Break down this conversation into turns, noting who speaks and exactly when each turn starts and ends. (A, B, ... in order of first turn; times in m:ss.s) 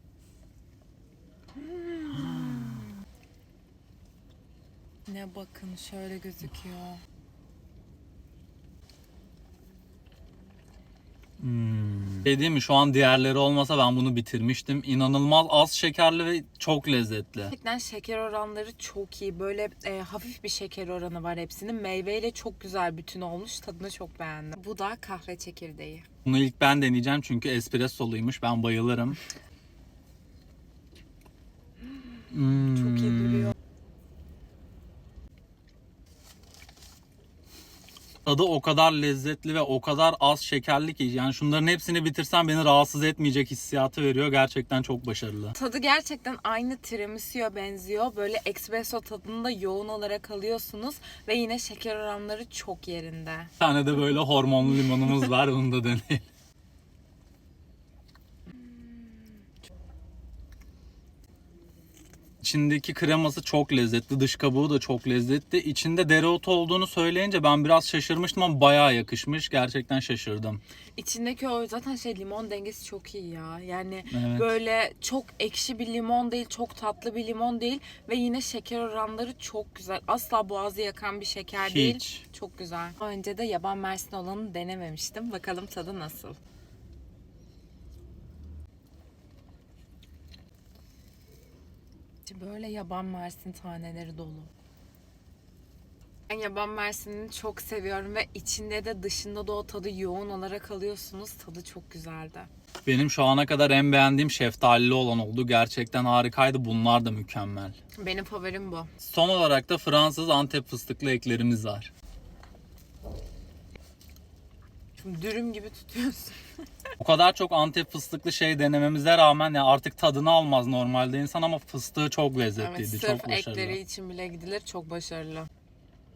0:01.6-0:02.9 A
0:02.1-0:02.9 B
0:05.1-0:07.0 A
0:11.4-0:17.5 B
0:17.5-0:26.0 A
0:26.2-0:29.2 B
0:32.3-0:33.5 B
0:32.5-0:33.5 A
0:38.2-0:45.5 B
0:45.5-0:53.5 A
0:53.6-0:56.2 B
1:02.4-1:10.6 B
1:11.0-1:26.4 A
1:14.1-1:14.5 B
1:21.6-1:22.2 B
1:32.3-1:34.5 A
1:36.3-1:42.5 A
1:42.8-1:47.7 B
1:48.0-1:48.9 A
1:49.0-1:51.9 B
1:55.0-1:56.4 A
1:57.0-2:03.8 B
2:02.6-2:05.5 A